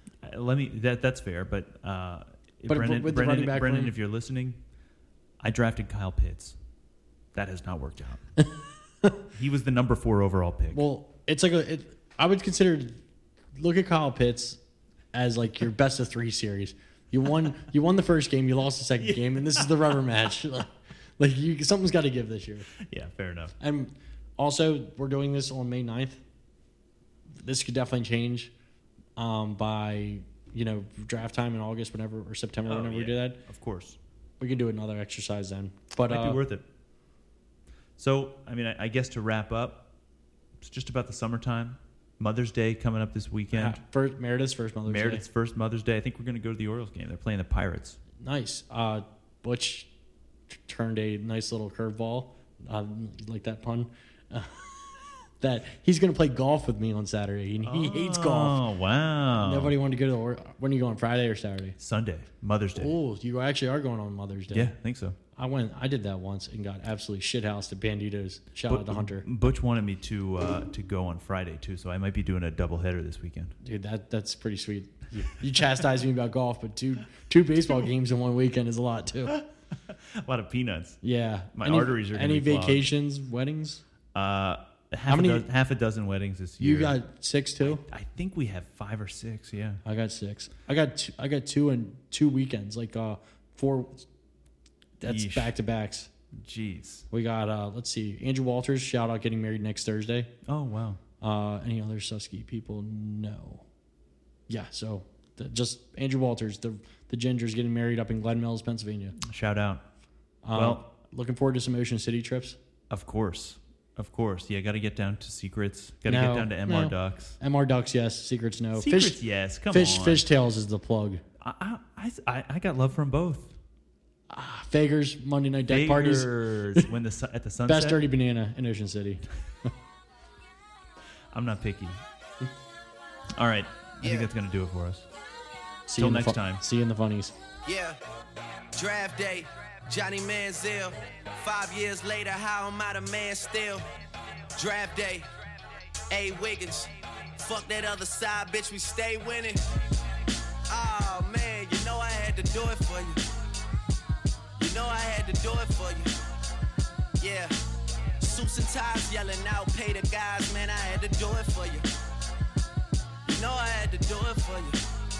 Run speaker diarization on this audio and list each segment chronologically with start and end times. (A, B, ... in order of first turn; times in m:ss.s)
0:00.2-0:04.6 A
0:02.7-0:04.0 B
0:05.4-0:06.6 A
0:07.3-0:08.2 A
0:09.3-0:10.8 A
0:10.7-0:13.0 B
0:13.6-0:14.6 B
0:15.1-0:22.7 B
0:19.0-0:19.7 A
0:22.8-0:23.6 A
0:23.6-0:26.2 B
0:27.4-0:28.5 B
0:29.2-0:33.4 B
0:32.7-0:34.0 A
0:34.4-0:36.4 B
0:36.1-0:36.6 A
0:38.0-0:39.9 A
0:40.6-0:43.8 A
0:43.5-0:45.2 B
0:44.9-0:48.0 A
0:48.2-0:49.9 B
0:50.5-0:58.6 B
0:57.6-0:59.8 A
0:59.3-1:01.8 B
1:01.8-1:03.0 A
1:02.8-1:04.7 B
1:04.5-1:05.2 A
1:05.4-1:09.2 B
1:08.7-1:13.5 A
1:13.6-1:19.4 B
1:19.3-1:21.0 A
1:21.0-1:23.8 B
1:21.5-1:22.9 A
1:24.1-1:27.0 A
1:25.1-1:25.5 B
1:26.6-1:27.8 B
1:27.6-1:29.8 A
1:29.8-1:34.1 B
1:35.0-1:36.1 B
1:35.0-1:35.6 A
1:36.4-1:37.1 A
1:37.1-1:40.3 B
1:40.4-1:41.0 A
1:41.2-1:43.6 B
1:44.5-1:49.2 B
1:49.2-1:49.8 A
1:50.4-1:52.6 B
1:50.5-1:50.8 A
1:52.9-1:57.4 A
1:56.1-2:01.2 B
1:58.7-2:00.3 A
2:01.4-2:03.6 A
2:04.3-2:06.9 B
2:05.7-2:08.0 A
2:07.6-2:09.7 B
2:11.3-2:12.0 A
2:13.4-2:15.1 A
2:14.0-2:14.3 C
2:15.9-2:17.4 B
2:16.0-2:16.6 A
2:17.7-2:18.0 C
2:18.7-2:23.8 C
2:24.6-2:25.3 C
2:26.1-2:29.6 C
2:30.7-2:33.2 C
2:34.6-2:36.1 C
2:37.2-2:37.6 C
2:38.2-2:41.9 C
2:43.2-2:44.8 C